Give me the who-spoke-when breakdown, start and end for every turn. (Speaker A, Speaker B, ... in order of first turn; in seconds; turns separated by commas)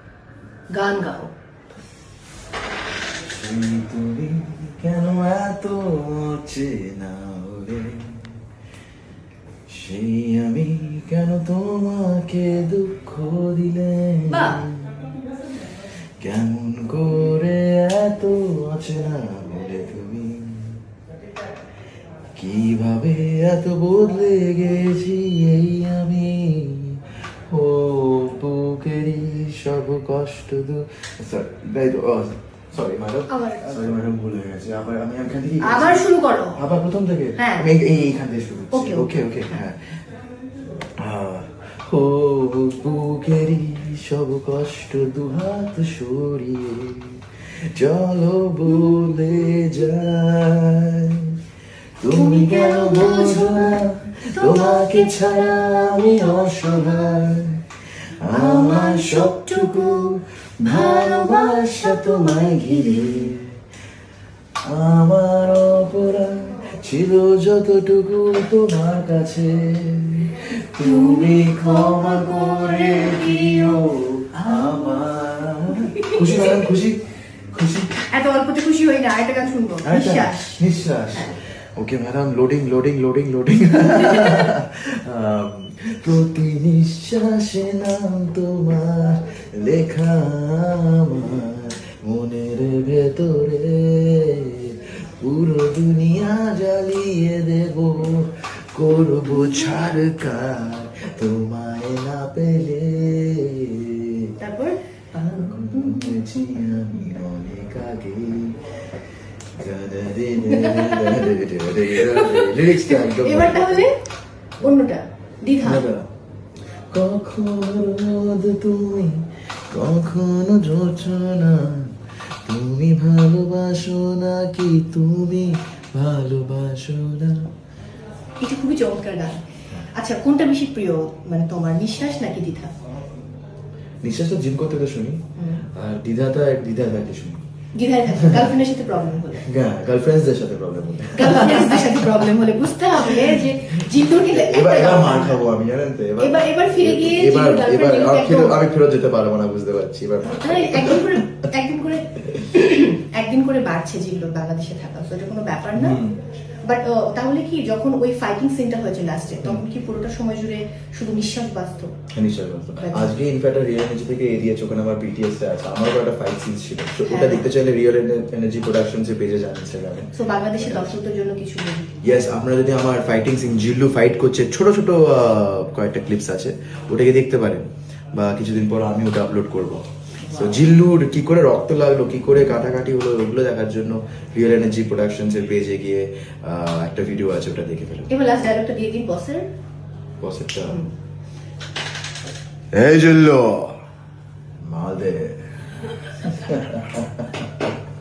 Speaker A: 0.7-1.3, Speaker B: 3.3-8.3, Speaker B: 9.7-14.9, Speaker A: 14.3-14.6, Speaker B: 16.2-20.8, Speaker B: 22.4-40.0, Speaker A: 33.3-33.6, Speaker A: 35.6-36.6, Speaker A: 37.4-37.7, Speaker A: 38.7-39.1, Speaker B: 41.0-51.4, Speaker B: 52.0-57.6, Speaker A: 52.1-56.1, Speaker B: 58.2-63.5, Speaker A: 58.3-60.1, Speaker A: 60.6-62.9, Speaker B: 64.7-78.0, Speaker A: 70.8-73.8, Speaker A: 75.7-76.6, Speaker A: 78.1-80.5, Speaker B: 79.8-104.3, Speaker A: 99.4-99.7, Speaker A: 104.4-106.2, Speaker B: 105.3-108.6, Speaker B: 109.5-113.9, Speaker A: 110.5-111.3, Speaker A: 112.0-113.9, Speaker A: 114.6-115.8, Speaker B: 115.6-116.0, Speaker B: 116.9-127.5, Speaker A: 128.4-132.7, Speaker B: 134.0-135.2, Speaker A: 135.4-135.6, Speaker B: 135.7-137.4, Speaker A: 137.7-139.5, Speaker B: 138.2-138.5, Speaker B: 139.4-142.3, Speaker A: 141.1-145.5, Speaker B: 142.9-151.2, Speaker A: 146.2-148.6, Speaker A: 150.2-156.0, Speaker B: 155.7-156.2, Speaker A: 156.6-161.9, Speaker B: 162.1-170.9, Speaker A: 162.8-163.1, Speaker A: 167.0-167.4, Speaker A: 170.1-172.0, Speaker B: 172.0-188.1, Speaker A: 180.2-180.6, Speaker A: 188.1-189.5, Speaker B: 190.2-190.8, Speaker B: 192.7-193.7, Speaker B: 194.6-197.5